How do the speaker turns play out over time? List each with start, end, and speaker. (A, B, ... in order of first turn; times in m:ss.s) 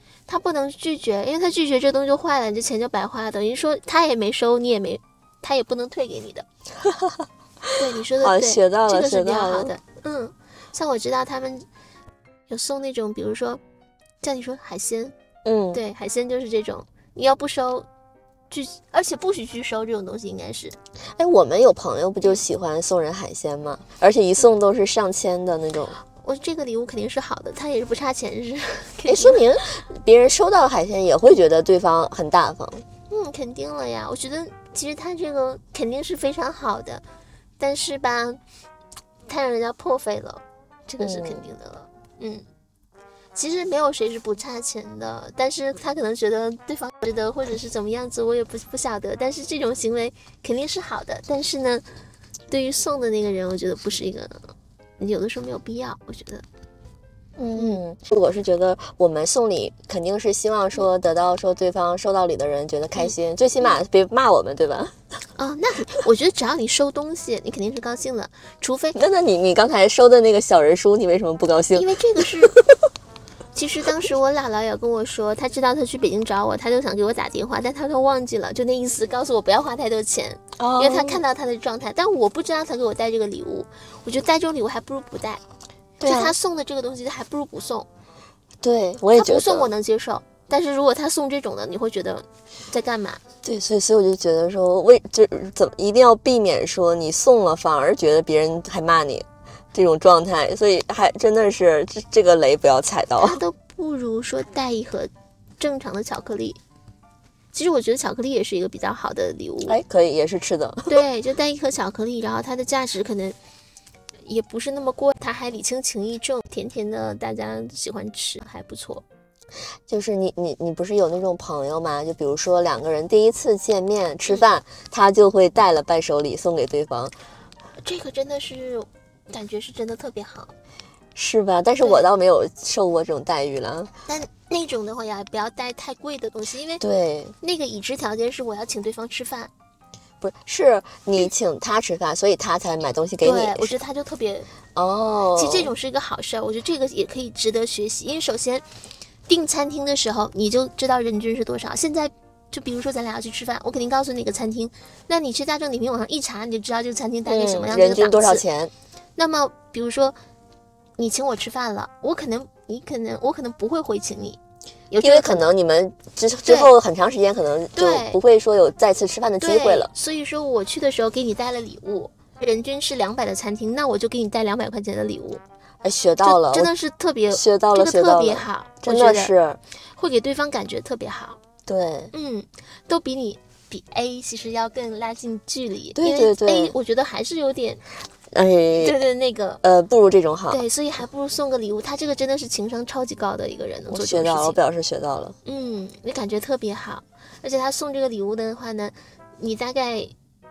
0:00.3-0:06.5 A
0:06.8-0:09.7 B
0:07.8-0:11.7 A
0:12.5-0:13.6 A
0:14.2-0:15.1 A
0:15.4-0:15.8 B
0:15.7-0:17.9 A
0:18.5-0:20.8 A
0:21.2-0:26.0 B
0:26.1-0:29.4 A
0:29.1-0:32.8 B
0:33.1-0:37.0 A
0:37.6-0:38.4 A
0:39.3-0:42.4 A
0:41.0-0:41.4 B
0:43.4-0:51.8 A
0:52.5-0:54.4 A
0:55.0-0:56.4 A
0:57.4-1:04.9 B
0:57.6-0:57.8 A
1:05.4-1:09.0 A
1:09.0-1:12.8 B
1:11.7-1:12.6 A
1:13.6-1:25.4 A
1:20.6-1:21.2 B
1:26.0-1:26.3 B
1:26.0-1:27.9 A
1:28.6-1:29.7 B
1:29.1-1:33.2 A
1:33.4-1:43.4 B
1:43.2-1:46.6 A
1:47.5-1:49.8 A
1:49.6-1:51.0 B
1:50.9-1:53.4 A
1:54.3-1:59.0 A
1:59.9-2:07.1 B
2:07.8-2:10.5 A
2:11.2-2:13.9 B
2:14.1-2:16.8 A
2:16.8-2:17.4 B
2:17.4-2:19.5 A
2:20.2-2:23.7 B
2:23.2-2:24.5 A
2:24.8-2:25.7 B
2:25.4-2:28.6 A
2:29.3-2:38.4 A
2:37.3-2:38.7 B
2:39.2-2:40.2 A
2:41.0-2:44.4 A
2:44.9-2:45.5 A
2:45.0-2:49.9 B
2:46.5-2:46.7 A
2:47.8-2:48.2 A
2:49.4-2:55.4 A
2:55.8-2:56.7 B
2:56.2-2:59.3 A
2:57.3-2:59.6 B
3:00.0-3:01.4 A
3:01.7-3:02.1 B
3:02.1-3:07.8 A
3:06.0-3:06.8 B
3:08.3-3:09.0 B
3:08.8-3:09.6 A
3:09.6-3:10.6 B
3:10.5-3:14.6 A
3:13.9-3:15.4 B
3:15.4-3:20.1 A